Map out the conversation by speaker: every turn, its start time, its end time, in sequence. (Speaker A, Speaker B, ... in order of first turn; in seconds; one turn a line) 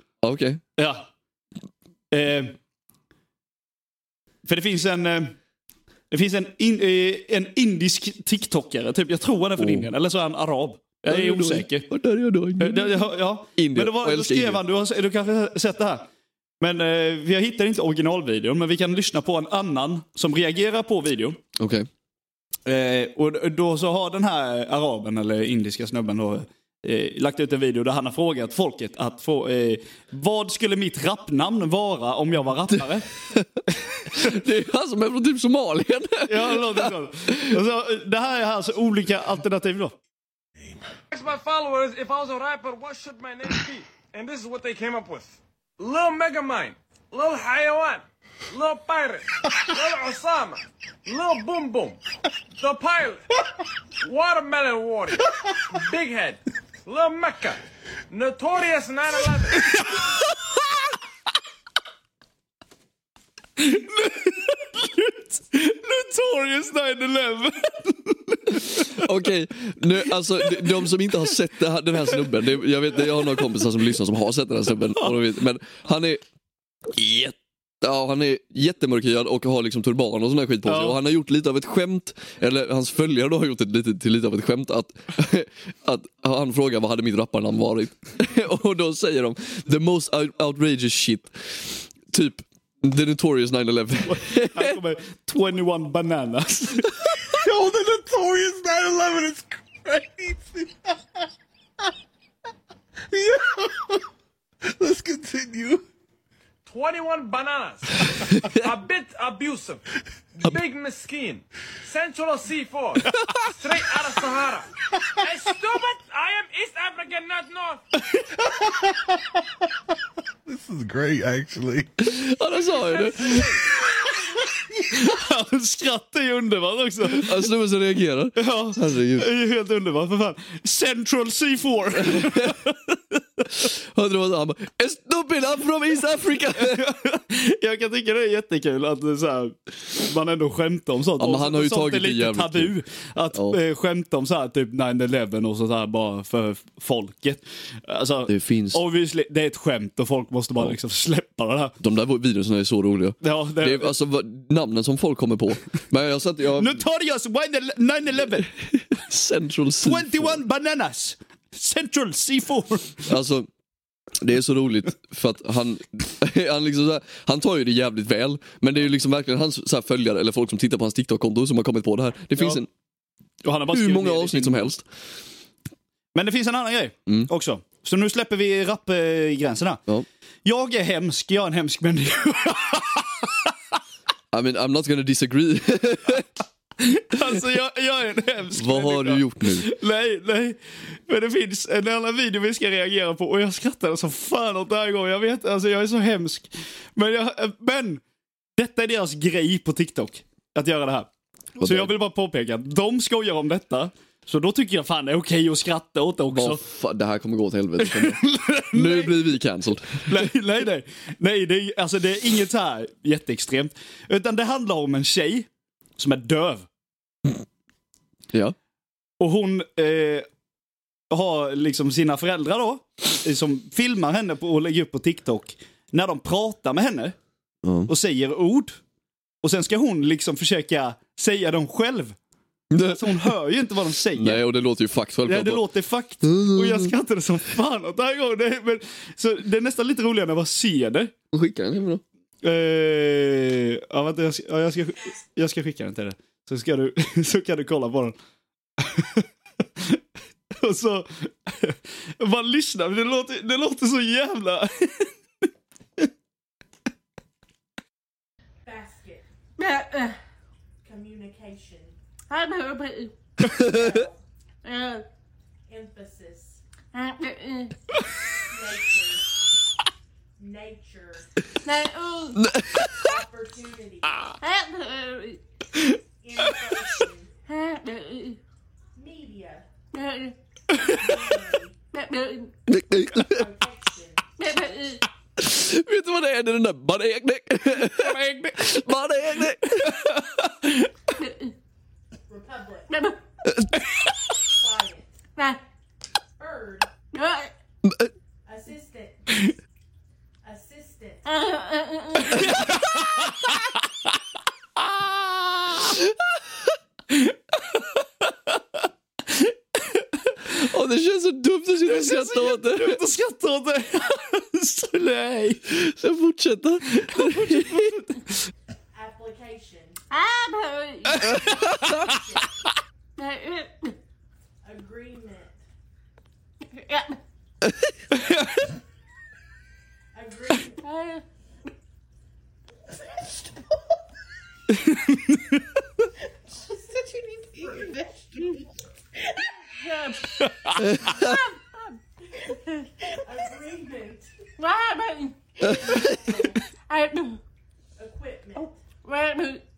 Speaker A: 0.2-0.6
Speaker B: 0.8-1.1
Speaker B: 2.1-2.6
Speaker B: 4.5-5.3
Speaker B: 6.1-11.9
Speaker A: 9.6-9.9
Speaker A: 11.1-14.6
Speaker B: 12.6-16.1
Speaker B: 16.6-21.4
Speaker A: 21.6-21.9
Speaker B: 22.7-33.1
Speaker A: 33.3-33.6
Speaker B: 34.0-34.4
Speaker A: 34.1-37.6
Speaker B: 36.3-40.0
Speaker C: 41.1-52.0
Speaker C: 52.6-53.4
Speaker C: 54.0-59.9
Speaker B: 63.6-69.1
Speaker A: 68.6-76.2
Speaker B: 70.4-70.8
Speaker A: 76.9-94.8
Speaker B: 80.7-81.0
Speaker B: 94.0-97.0
Speaker D: 97.3-101.0
Speaker D: 103.1-104.0
Speaker D: 104.8-105.8
Speaker C: 106.7-109.8
Speaker A: 108.3-108.7
Speaker C: 110.4-117.8
Speaker D: 118.6-118.9
Speaker D: 120.5-122.1
Speaker A: 122.0-123.5
Speaker B: 124.8-127.4
Speaker A: 127.0-129.3
Speaker B: 128.4-133.0
Speaker A: 132.0-132.6
Speaker A: 133.5-136.9
Speaker B: 136.6-151.7
Speaker A: 141.2-142.7
Speaker A: 143.3-143.6
Speaker A: 148.3-148.8
Speaker A: 151.8-156.8
Speaker B: 153.2-154.0
Speaker B: 156.6-158.5
Speaker A: 158.4-160.4
Speaker B: 159.8-163.1
Speaker A: 163.1-163.5
Speaker A: 164.2-172.7
Speaker B: 172.4-172.6
Speaker B: 173.4-174.7
Speaker A: 173.7-174.9
Speaker B: 176.1-179.8
Speaker B: 180.4-183.5
Speaker A: 184.3-186.3
Speaker B: 186.8-198.0
Speaker A: 188.6-189.7
Speaker B: 198.6-206.6
Speaker A: 201.6-201.9
Speaker A: 206.3-210.3
Speaker B: 207.8-209.3
Speaker B: 210.1-216.7
Speaker B: 219.2-220.3
Speaker B: 221.1-227.2
Speaker A: 227.6-227.9
Speaker B: 227.9-228.8
Speaker B: 229.4-232.2
Speaker A: 232.7-233.3
Speaker B: 232.8-234.4
Speaker A: 234.1-235.6
Speaker B: 235.2-241.1
Speaker A: 236.2-236.9
Speaker A: 241.3-242.0
Speaker B: 242.4-248.2
Speaker B: 248.8-249.3
Speaker B: 250.6-255.1
Speaker E: 258.6-259.2
Speaker F: 259.6-260.2
Speaker E: 260.8-262.0
Speaker F: 262.3-263.1
Speaker E: 263.5-264.2
Speaker F: 264.6-265.1
Speaker E: 265.7-266.6
Speaker F: 266.9-267.8
Speaker E: 268.5-269.4
Speaker E: 270.4-271.5
Speaker F: 271.6-272.4
Speaker A: 272.4-273.2
Speaker E: 272.8-274.3
Speaker F: 274.4-275.4
Speaker E: 276.2-277.3
Speaker F: 277.5-278.4
Speaker E: 278.9-279.7
Speaker F: 279.9-280.4
Speaker E: 280.9-281.7
Speaker F: 281.9-282.5
Speaker A: 282.7-283.5
Speaker E: 283.2-284.2
Speaker F: 284.4-285.0
Speaker A: 285.4-290.1
Speaker B: 288.0-288.6
Speaker B: 289.7-290.9
Speaker F: 291.2-291.5
Speaker E: 292.3-292.9
Speaker F: 292.9-293.2
Speaker E: 294.5-295.2
Speaker E: 296.4-296.9
Speaker F: 297.1-297.5
Speaker A: 297.8-298.1
Speaker E: 298.5-299.6
Speaker E: 300.4-301.3
Speaker F: 301.3-302.5
Speaker E: 302.4-302.7
Speaker A: 302.4-302.8
Speaker B: 307.1-308.5
Speaker B: 309.3-310.3
Speaker A: 310.5-313.0
Speaker B: 311.9-315.6
Speaker A: 315.7-317.9
Speaker B: 317.0-318.3
Speaker E: 318.9-320.0
Speaker F: 320.1-321.3
Speaker E: 321.2-322.5
Speaker A: 321.4-322.1
Speaker B: 321.5-321.9
Speaker F: 323.2-323.9
Speaker E: 324.6-325.6
Speaker F: 326.7-327.2
Speaker B: 328.1-328.4
Speaker E: 330.1-330.8
Speaker F: 330.8-331.2
Speaker B: 334.8-335.6
Speaker E: 336.6-338.6
Speaker F: 337.2-337.9
Speaker F: 339.8-341.5
Speaker B: 340.4-340.9
Speaker A: 340.8-341.4
Speaker E: 341.1-341.4
Speaker E: 342.3-344.3
Speaker F: 344.6-346.0
Speaker A: 345.6-346.2
Speaker E: 345.8-346.6
Speaker F: 346.9-347.4
Speaker E: 348.0-348.8
Speaker F: 349.0-349.6